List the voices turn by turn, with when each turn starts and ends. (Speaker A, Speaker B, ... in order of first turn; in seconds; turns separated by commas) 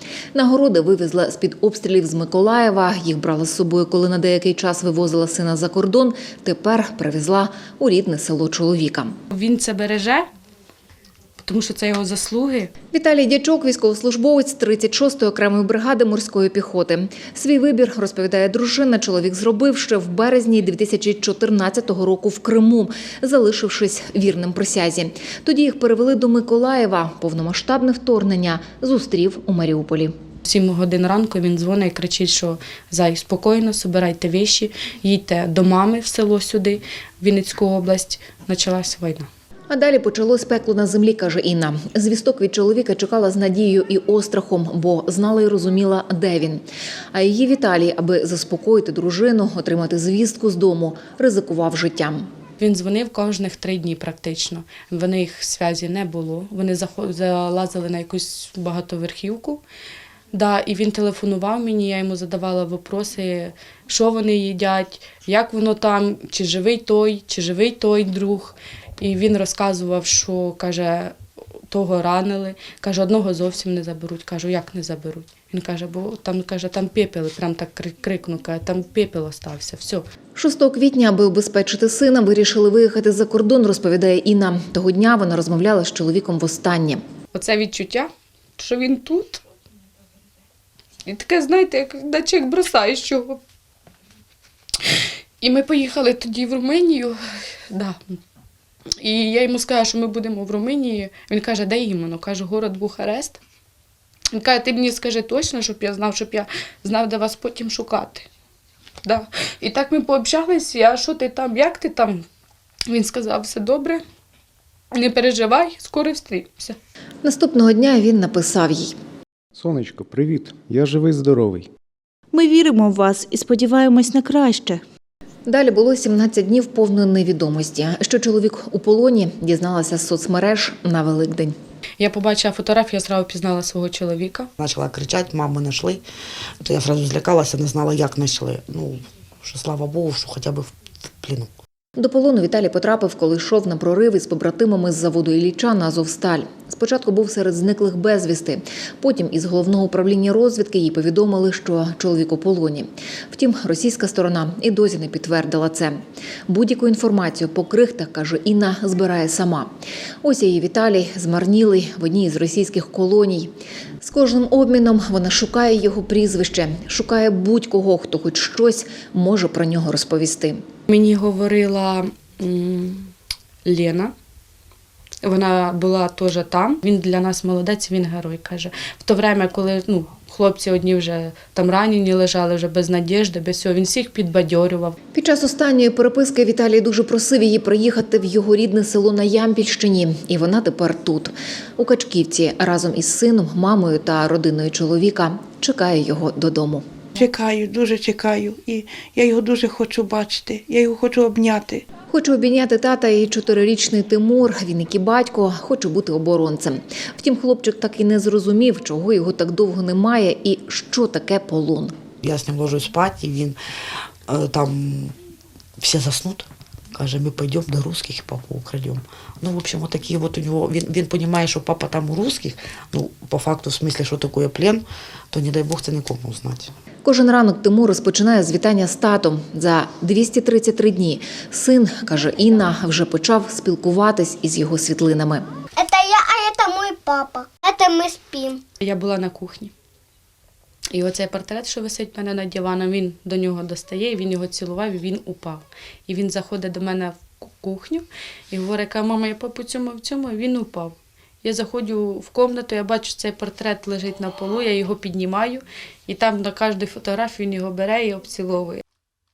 Speaker A: 0.3-9.1, Speaker B: 9.3-10.3, Speaker B: 11.4-12.7, Speaker A: 12.9-30.1, Speaker B: 30.4-39.3, Speaker A: 39.7-52.3, Speaker B: 52.6-59.6, Speaker B: 60.3-71.1, Speaker B: 71.7-80.0, Speaker A: 80.3-87.0, Speaker B: 87.3-89.4, Speaker B: 91.0-93.4, Speaker B: 94.8-97.2, Speaker B: 97.7-98.2, Speaker B: 99.0-103.4, Speaker B: 104.3-108.2, Speaker B: 109.0-112.2, Speaker B: 112.9-114.0, Speaker B: 114.9-116.8, Speaker A: 117.2-119.0, Speaker C: 119.5-121.7, Speaker D: 122.3-124.8, Speaker A: 125.5-131.5, Speaker B: 132.0-134.5, Speaker E: 134.6-136.0, Speaker E: 136.6-141.5, Speaker A: 142.0-155.9, Speaker A: 156.5-159.7, Speaker A: 160.2-170.6, Speaker B: 170.9-173.1, Speaker B: 173.7-174.1, Speaker B: 175.2-184.9, Speaker A: 185.1-196.8, Speaker F: 197.2-201.8, Speaker A: 202.1-211.9, Speaker E: 212.2-213.6, Speaker E: 214.3-215.2, Speaker E: 215.8-226.7, Speaker A: 227.0-235.4, Speaker G: 235.8-238.6, Speaker B: 238.8-239.7, Speaker B: 240.9-258.8